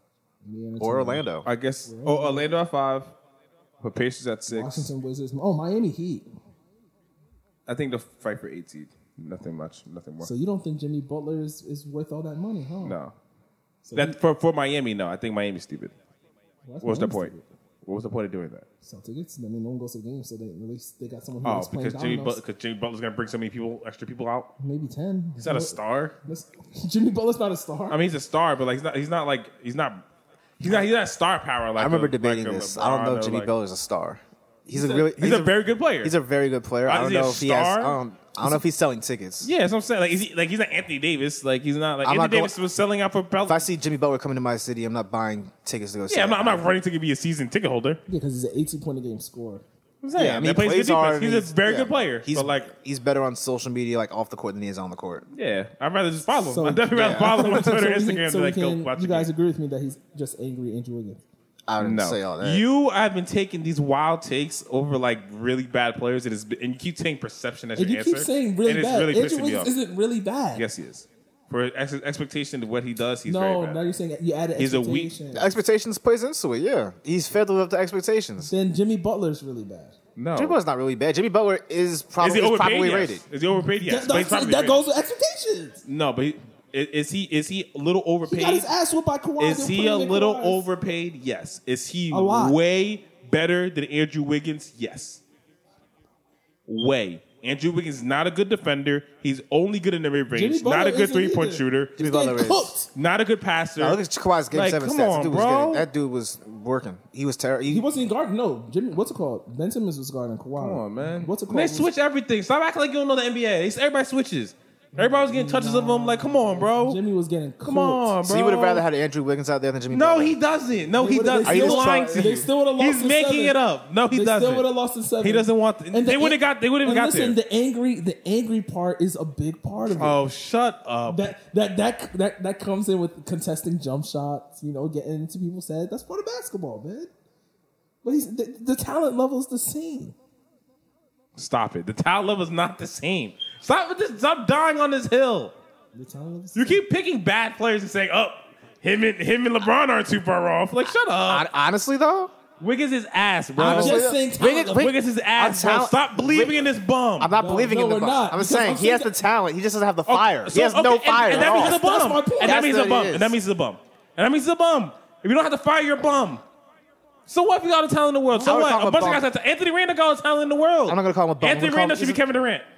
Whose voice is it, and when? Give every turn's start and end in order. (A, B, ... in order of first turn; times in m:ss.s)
0:00.4-0:01.2 A
0:00.8-0:01.5 B
0:01.4-0:03.1 C
0:01.8-0:02.5 A
0:03.8-0:04.9 C
0:04.5-0:06.3 A
0:07.7-0:10.3 C
0:10.2-0:13.0 A
0:12.8-0:13.1 C
0:13.8-0:14.2 A
0:14.0-0:15.9 C
0:16.6-0:17.4 A
0:16.8-0:17.3 C
0:17.8-0:18.6 C
0:18.8-0:22.4 A
0:21.4-0:24.5 C
0:24.6-0:28.0 A
0:25.4-0:26.2 C
0:27.9-0:30.0 C
0:30.6-0:33.5 C
0:30.6-0:30.9 B
0:31.8-0:39.5 B
0:34.7-0:35.1 A
0:35.0-0:36.2 C
0:36.9-0:38.0 C
0:39.4-0:43.6 C
0:42.0-0:42.5 B
0:43.4-0:46.7 B
0:46.1-0:48.0 C
0:48.1-0:49.6 A
0:50.0-0:52.7 C
0:50.1-0:55.2 B
0:55.3-0:59.3 C
0:56.4-1:01.2 A
0:56.9-0:57.8 B
1:01.7-1:02.6 B
1:01.8-1:09.7 C
1:07.8-1:10.6 A
1:10.6-1:13.8 C
1:13.2-1:15.5 A
1:14.6-1:15.1 C
1:15.3-1:18.5 B
1:18.4-1:20.0 A
1:20.2-1:20.6 C
1:20.4-1:23.2 B
1:22.2-1:24.8 C
1:23.6-1:25.8 A
1:25.8-1:28.7 C
1:28.3-1:30.6 A
1:29.4-1:35.2 C
1:32.1-1:32.6 A
1:36.7-1:42.0 C
1:40.3-1:42.9 A
1:42.0-1:42.7 B
1:42.9-1:44.0 C
1:43.8-1:47.9 B
1:44.5-1:45.9 C
1:47.7-1:51.9 A
1:50.6-1:57.0 C
1:55.0-1:58.1 A
1:57.6-1:58.8 C
1:58.2-2:00.4 B
1:59.9-2:04.7 C
2:00.9-2:03.6 A
2:01.4-2:02.4 B
2:04.1-2:10.2 A
2:05.2-2:07.4 C
2:09.9-2:11.3 C
2:11.1-2:17.1 A
2:18.0-2:20.2 A
2:21.4-2:25.6 C
2:25.9-2:26.8 A
2:26.6-2:31.5 C
2:31.2-2:32.3 B
2:32.6-2:37.3 C
2:33.6-2:34.8 A
2:33.6-2:41.8 B
2:37.4-2:39.1 A
2:40.1-2:46.4 C
2:41.3-2:42.8 A
2:42.4-2:43.4 B
2:47.3-2:52.7 C
2:48.3-2:48.6 A
2:48.4-2:49.2 B
2:50.9-2:52.2 B